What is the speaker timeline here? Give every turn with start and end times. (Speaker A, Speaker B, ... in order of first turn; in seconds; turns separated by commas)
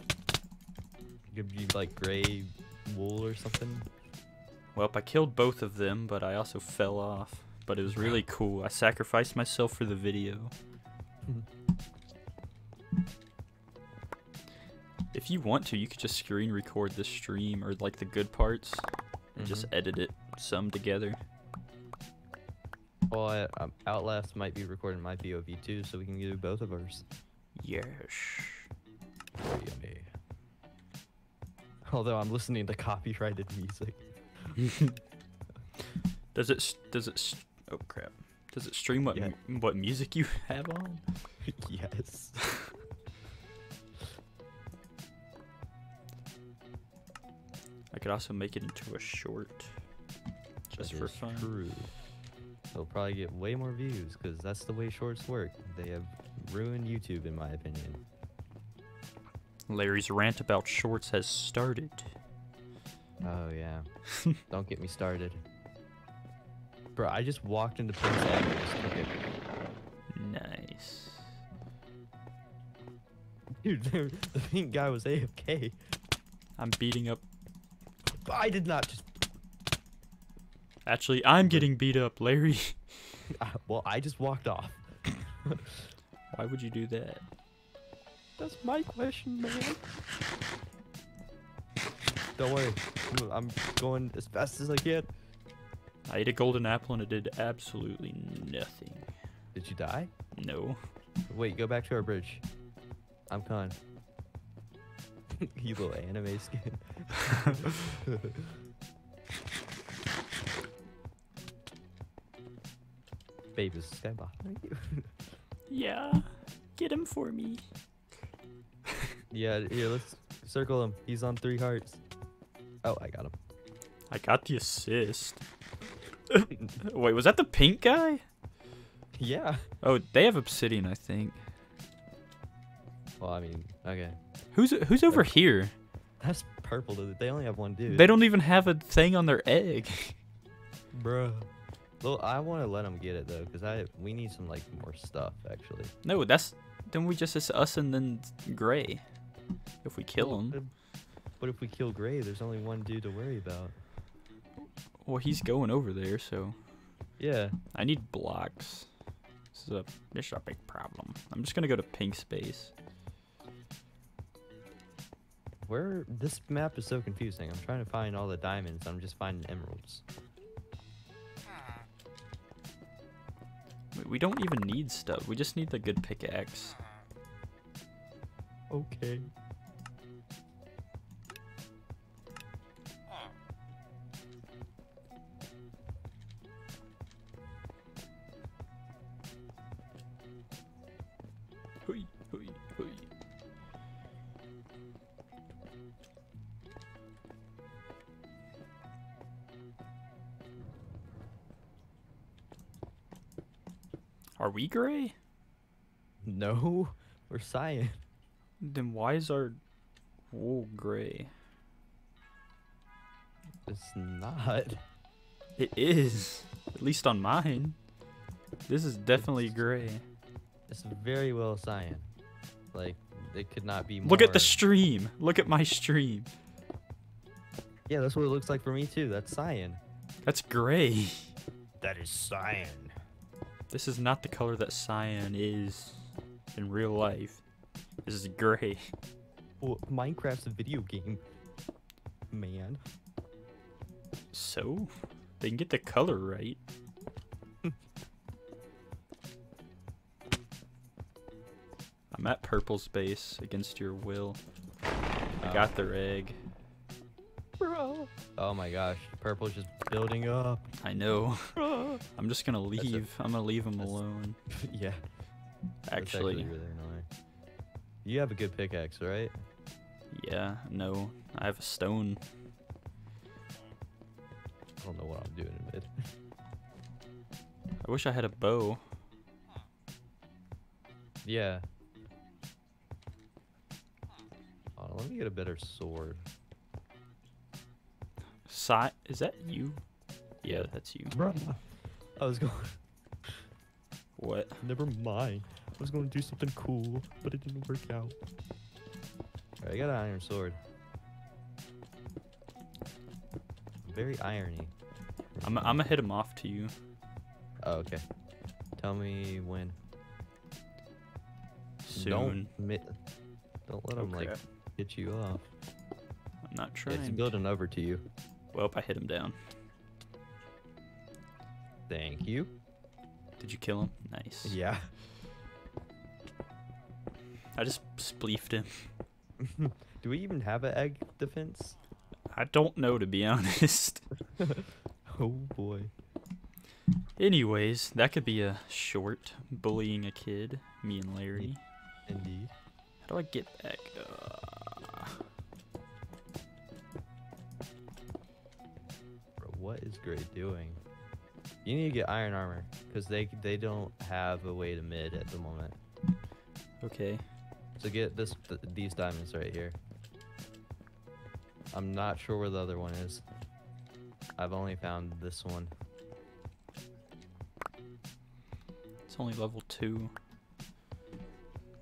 Speaker A: 1.3-3.9, Speaker B: 4.7-10.5, Speaker B: 15.1-21.2, Speaker A: 19.4-19.7, Speaker A: 23.1-27.0, Speaker B: 27.6-28.7, Speaker A: 29.4-30.1, Speaker A: 31.8-34.0, Speaker B: 34.6-35.0, Speaker B: 36.3-41.0, Speaker A: 41.4-42.4, Speaker B: 47.9-49.7, Speaker B: 50.7-51.5, Speaker A: 50.8-51.9, Speaker A: 52.7-58.0, Speaker B: 59.7-62.1, Speaker A: 63.2-63.8, Speaker A: 64.4-65.4, Speaker A: 67.0-69.1, Speaker B: 70.1-71.3, Speaker A: 73.6-75.8, Speaker B: 76.6-77.2, Speaker A: 78.1-79.1, Speaker B: 80.8-83.2, Speaker A: 81.4-81.7, Speaker A: 83.3-85.9, Speaker B: 86.3-87.2, Speaker A: 88.4-89.8, Speaker A: 92.4-95.1, Speaker B: 96.1-99.1, Speaker A: 99.5-100.1, Speaker B: 100.3-100.8, Speaker A: 101.3-102.4, Speaker A: 103.3-103.8, Speaker A: 105.3-108.5, Speaker A: 113.5-115.3, Speaker B: 115.7-117.6, Speaker A: 119.3-122.0, Speaker A: 122.8-123.3, Speaker B: 124.1-125.4, Speaker B: 126.3-128.2, Speaker A: 129.1-129.6, Speaker B: 129.8-131.4, Speaker A: 133.2-134.2, Speaker B: 134.5-135.7, Speaker A: 136.2-138.1, Speaker B: 137.9-140.2, Speaker A: 140.9-141.5, Speaker A: 142.0-145.9, Speaker B: 146.0-149.0, Speaker B: 149.8-150.6, Speaker A: 150.2-150.7, Speaker A: 151.4-153.8, Speaker B: 155.0-156.6, Speaker A: 157.2-157.6, Speaker B: 157.7-158.9, Speaker B: 159.5-162.7, Speaker A: 165.7-170.0, Speaker B: 173.9-176.8, Speaker A: 178.7-179.3, Speaker B: 191.8-193.1, Speaker B: 204.4-205.1, Speaker A: 206.2-207.9, Speaker B: 208.6-209.6, Speaker B: 210.3-211.3, Speaker A: 213.7-214.8, Speaker B: 215.6-217.8, Speaker B: 218.7-220.0, Speaker A: 219.2-219.8, Speaker A: 220.7-222.1, Speaker A: 222.7-224.6, Speaker B: 224.0-226.3, Speaker A: 227.9-229.8, Speaker B: 230.2-231.3, Speaker A: 231.8-232.9, Speaker B: 233.7-237.4, Speaker B: 238.0-238.9, Speaker A: 239.6-241.2, Speaker A: 242.3-242.8, Speaker B: 244.3-246.6, Speaker B: 252.1-254.4, Speaker A: 255.4-255.7, Speaker B: 255.4-256.4, Speaker A: 257.6-260.7, Speaker B: 260.8-264.4, Speaker A: 261.6-262.0, Speaker A: 262.8-263.0, Speaker A: 264.5-265.0, Speaker B: 265.9-266.5, Speaker A: 265.9-267.1, Speaker A: 268.0-269.3, Speaker B: 270.1-272.2, Speaker A: 274.8-276.0, Speaker B: 277.8-278.8, Speaker A: 281.2-281.6, Speaker A: 284.8-286.2, Speaker B: 288.4-289.8, Speaker B: 290.4-291.2, Speaker A: 290.4-291.6, Speaker A: 292.1-292.8, Speaker B: 294.2-294.6, Speaker A: 294.6-298.1, Speaker A: 299.6-300.6, Speaker A: 303.8-304.7, Speaker A: 305.3-305.8, Speaker B: 305.4-306.7, Speaker A: 307.6-308.0, Speaker A: 308.8-309.8, Speaker B: 311.8-312.5, Speaker A: 311.9-312.9, Speaker A: 313.7-315.4, Speaker B: 314.0-314.4, Speaker B: 316.5-317.3, Speaker A: 316.9-318.0, Speaker B: 318.5-319.4, Speaker A: 321.9-322.5, Speaker B: 323.4-324.6, Speaker A: 324.4-324.9, Speaker B: 327.5-328.9, Speaker A: 329.4-331.8, Speaker B: 332.3-334.1, Speaker A: 334.4-335.9, Speaker B: 337.2-341.6, Speaker A: 342.1-342.5, Speaker B: 343.0-345.2, Speaker A: 349.4-350.8, Speaker A: 351.6-355.8, Speaker B: 356.8-357.2, Speaker A: 357.7-359.8, Speaker A: 361.7-363.2, Speaker A: 364.4-365.7, Speaker B: 369.1-370.1